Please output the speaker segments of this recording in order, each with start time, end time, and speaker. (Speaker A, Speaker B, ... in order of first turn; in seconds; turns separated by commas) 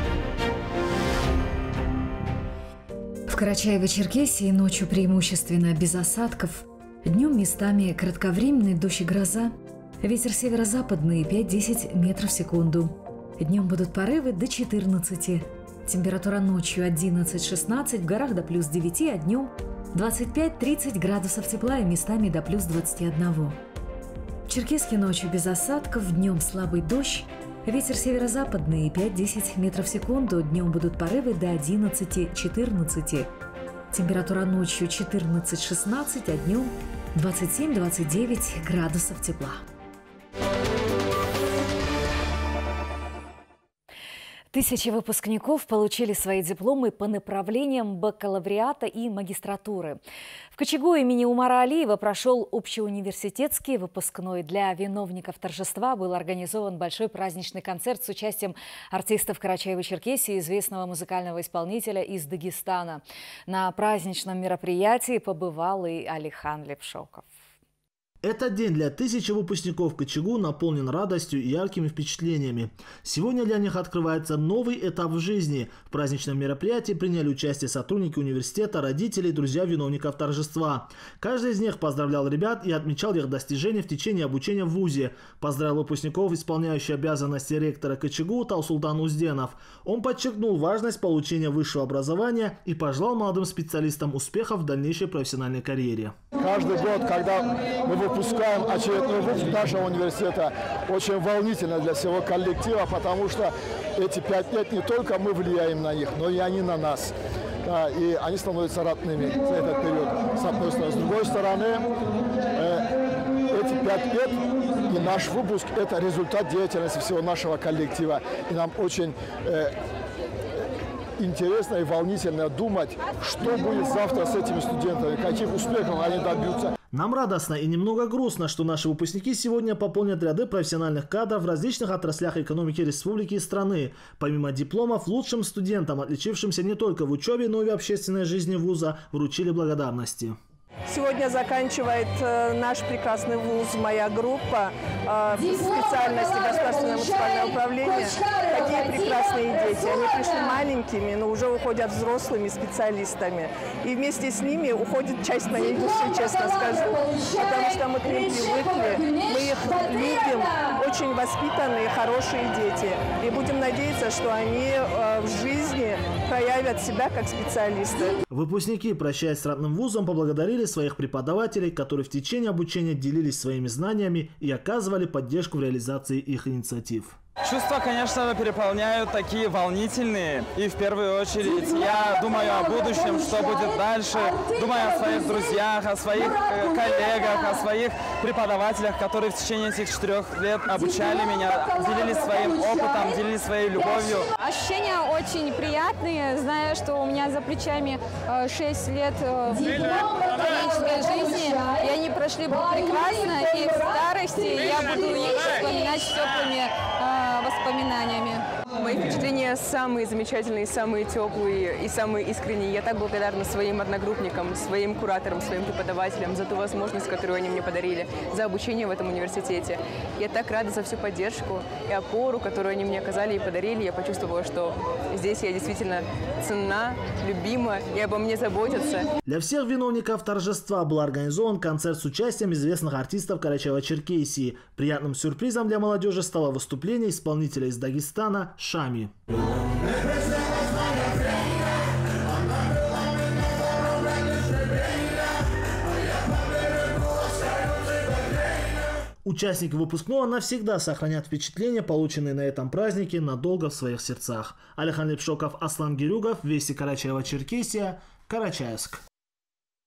Speaker A: 3.3-23.6, Speaker A: 24.4-33.3, Speaker A: 33.9-39.6, Speaker A: 44.5-50.0, Speaker A: 50.5-67.3, Speaker B: 68.2-96.2, Speaker C: 96.4-107.1, Speaker C: 107.6-111.9, Speaker C: 112.5-112.9, Speaker C: 113.5-119.7, Speaker C: 121.2-126.7, Speaker B: 126.9-140.4, Speaker D: 140.9-168.2, Speaker B: 168.3-177.2, Speaker E: 177.4-194.3, Speaker F: 194.3-208.4, Speaker G: 208.7-229.1, Speaker B: 229.2-239.1, Speaker B: 249.2-259.0